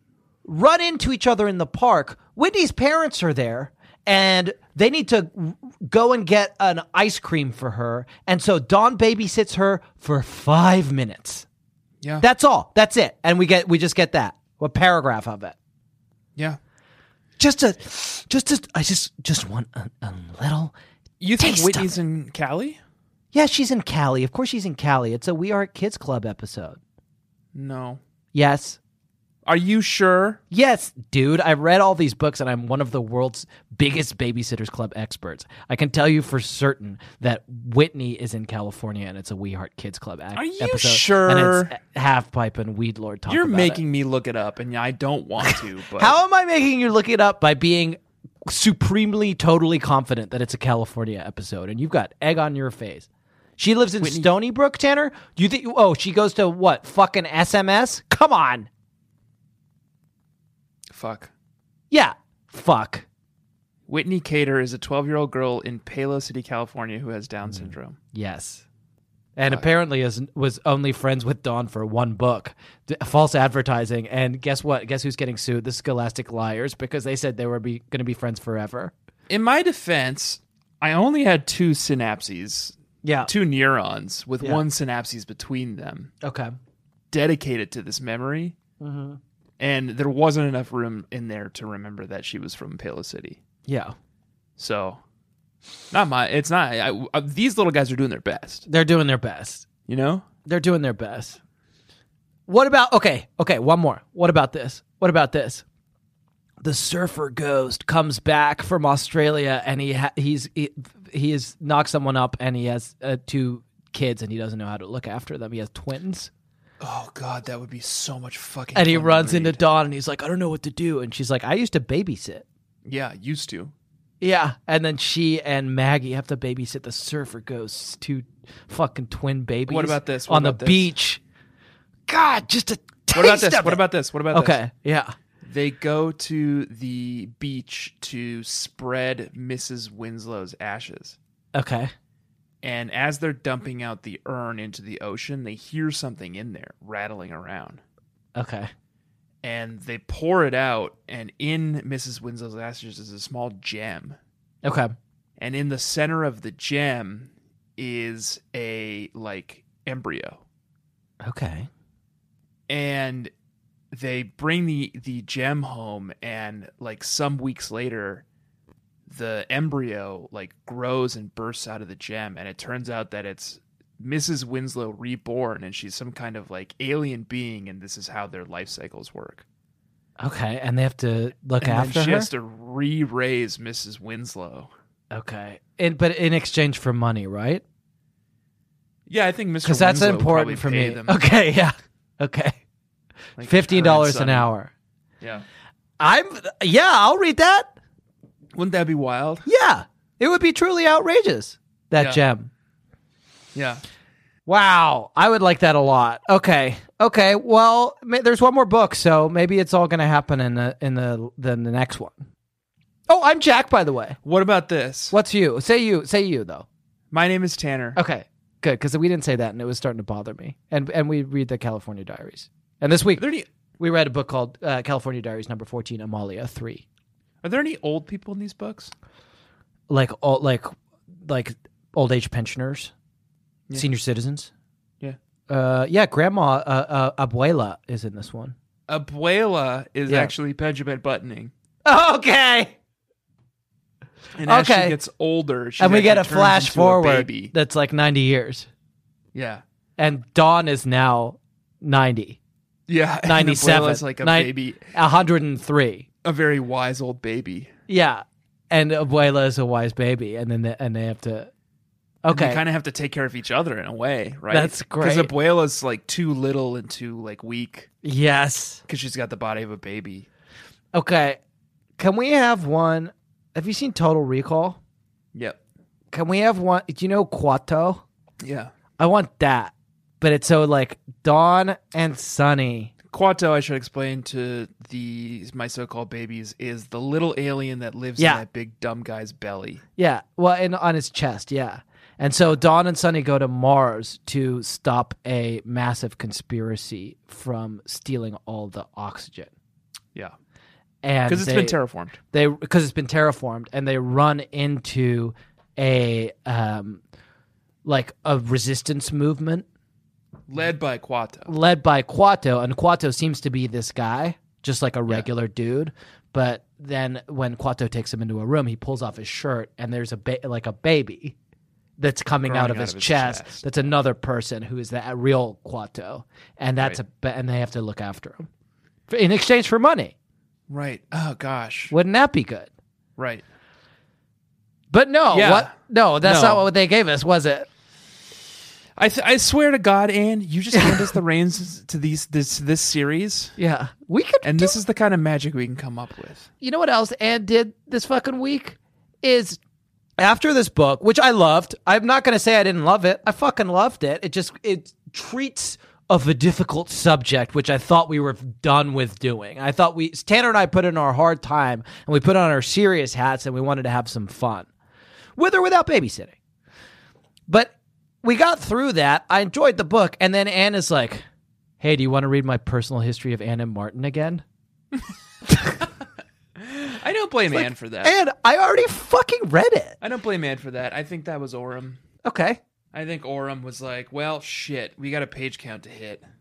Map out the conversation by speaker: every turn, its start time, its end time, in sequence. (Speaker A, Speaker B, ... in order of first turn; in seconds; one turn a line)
Speaker A: 0.4-11.4
Speaker A: 12.2-15.6
Speaker A: 17.4-20.7
Speaker B: 21.2-22.8
Speaker A: 21.4-22.0
Speaker A: 23.3-26.8
Speaker B: 27.5-28.0
Speaker A: 28.3-28.8
Speaker B: 29.4-30.4
Speaker A: 30.5-43.8
Speaker B: 40.3-41.7
Speaker B: 43.3-46.1
Speaker A: 45.4-53.1
Speaker A: 53.6-58.7
Speaker B: 54.0-54.3
Speaker B: 60.9-61.3
Speaker A: 61.9-63.0
Speaker B: 63.9-68.0
Speaker A: 67.4-68.6
Speaker A: 69.3-78.9
Speaker B: 79.3-86.1
Speaker A: 83.0-83.3
Speaker A: 86.2-86.5
Speaker B: 87.1-88.5
Speaker A: 88.8-89.2
Speaker B: 89.6-93.4
Speaker A: 93.7-93.9
Speaker B: 94.6-95.0
Speaker B: 95.9-98.7
Speaker A: 98.7-99.6
Speaker B: 99.9-100.2
Speaker A: 100.4-101.4
Speaker A: 102.5-105.6
Speaker A: 106.6-116.3
Speaker B: 116.8-119.6
Speaker A: 118.7-122.4
Speaker B: 122.8-123.7
Speaker A: 124.2-131.2
Speaker B: 129.7-130.9
Speaker A: 132.1-135.1
Speaker B: 133.1-134.6
Speaker B: 135.4-141.2
Speaker A: 141.5-141.9
Speaker B: 142.6-147.8
Speaker A: 148.3-148.7
Speaker B: 149.4-154.2
Speaker A: 154.6-154.9
Speaker B: 155.4-160.4
Speaker A: 161.2-161.7
Speaker B: 162.7-163.3
Speaker B: 163.9-168.2
Speaker B: 169.1-179.4
Speaker A: 180.2-182.3
Speaker B: 181.6-184.7
Speaker A: 185.1-187.6
Speaker B: 189.1-191.2
Speaker A: 189.6-192.6
Speaker B: 193.4-194.5
Speaker A: 193.4-194.7
Speaker A: 196.0-197.7
Speaker B: 198.5-199.5
Speaker A: 199.4-202.5
Speaker B: 202.0-202.2
Speaker B: 203.5-203.8
Speaker A: 204.4-212.2
Speaker A: 213.1-214.2
Speaker B: 214.2-215.1
Speaker A: 215.1-216.7
Speaker B: 217.1-218.0
Speaker A: 217.9-223.2
Speaker B: 223.2-223.5
Speaker A: 223.8-226.8
Speaker B: 227.4-228.9
Speaker A: 229.9-232.9
Speaker A: 233.7-234.5
Speaker A: 235.5-238.5
Speaker B: 238.9-241.5
Speaker A: 240.1-240.3
Speaker A: 241.8-242.8
Speaker B: 244.3-247.5
Speaker A: 244.5-245.0
Speaker A: 245.8-248.7
Speaker B: 249.3-249.6
Speaker A: 250.0-252.4
Speaker B: 252.9-254.9
Speaker A: 253.2-256.1
Speaker B: 256.2-257.7
Speaker A: 257.9-261.5
Speaker A: 262.2-262.6
Speaker B: 262.3-267.9
Speaker A: 264.5-265.3
Speaker A: 268.0-268.8
Speaker B: 268.9-270.3
Speaker A: 270.9-271.4
Speaker A: 272.0-274.8
Speaker B: 275.3-275.6
Speaker A: 276.1-278.0
Speaker B: 278.4-278.7
Speaker A: 279.0-282.9
Speaker B: 283.1-289.8
Speaker A: 288.2-288.4
Speaker A: 290.0-299.5
Speaker A: 301.0-301.8
Speaker B: 301.3-302.2
Speaker A: 302.3-307.0
Speaker A: 307.8-309.6
Speaker B: 310.5-311.5
Speaker A: 311.5-321.3
Speaker A: 322.0-328.5
Speaker B: 322.4-323.7
Speaker A: 329.1-330.1
Speaker B: 330.7-331.9
Speaker A: 331.9-332.7
Speaker B: 333.2-333.4
Speaker A: 334.9-337.7
Speaker B: 335.3-336.6
Speaker B: 339.0-343.5
Speaker A: 343.6-344.8
Speaker B: 344.4-346.5
Speaker A: 346.6-349.6
Speaker A: 350.2-364.7
Speaker A: 365.4-366.3
Speaker A: 367.5-371.2
Speaker A: 371.8-374.4
Speaker B: 376.6-378.1
Speaker A: 377.5-379.9
Speaker B: 380.0-382.0
Speaker A: 382.2-382.6
Speaker B: 382.9-386.2